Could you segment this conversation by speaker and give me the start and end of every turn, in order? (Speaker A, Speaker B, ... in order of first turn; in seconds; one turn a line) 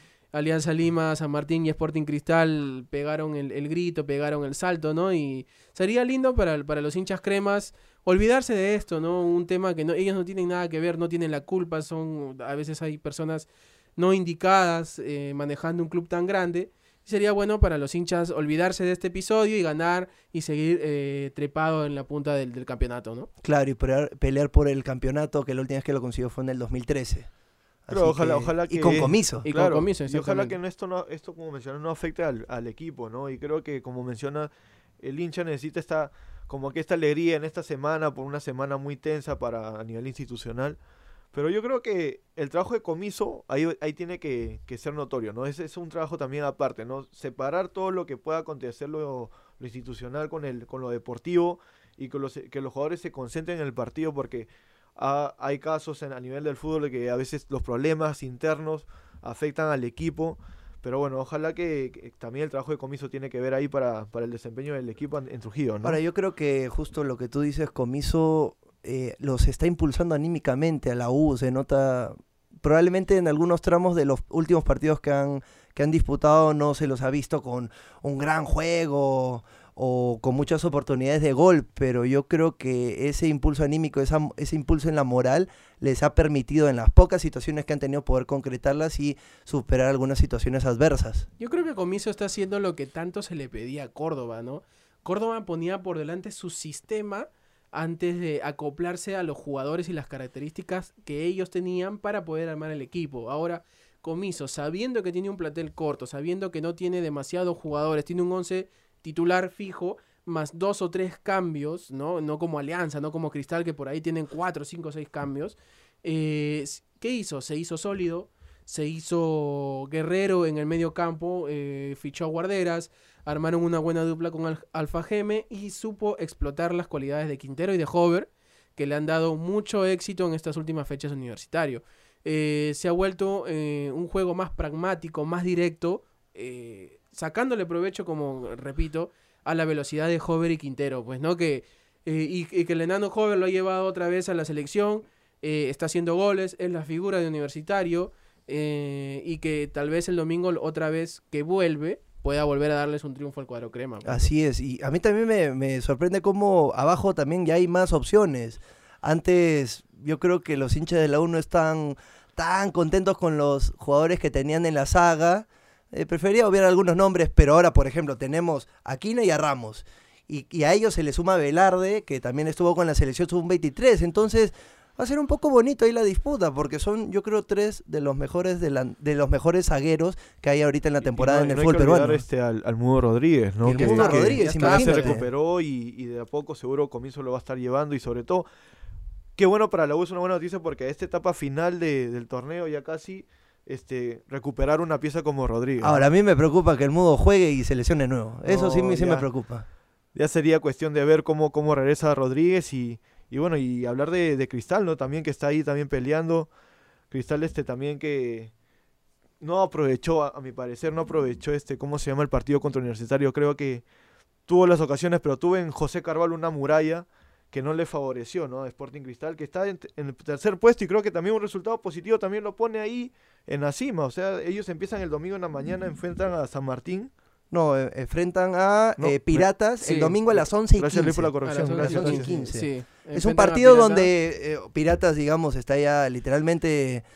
Speaker A: 0.3-23.3
Speaker B: 23.4-27.3
Speaker B: 27.9-29.4
Speaker C: 27.9-40.8
Speaker A: 29.4-30.6
Speaker C: 41.3-66.0
Speaker B: 65.8-91.3
Speaker A: 91.4-154.2
Speaker B: 154.0-182.2
Speaker C: 181.0-188.5
Speaker B: 183.6-185.2
Speaker A: 183.7-185.2
Speaker C: 189.4-196.1
Speaker B: 195.8-199.6
Speaker C: 198.4-199.3
Speaker C: 200.1-206.5
Speaker C: 207.1-208.5
Speaker C: 209.4-213.8
Speaker C: 214.5-227.1
Speaker B: 227.5-237.0
Speaker C: 229.0-229.5
Speaker A: 229.8-230.2
Speaker C: 230.3-232.4
Speaker A: 231.4-234.1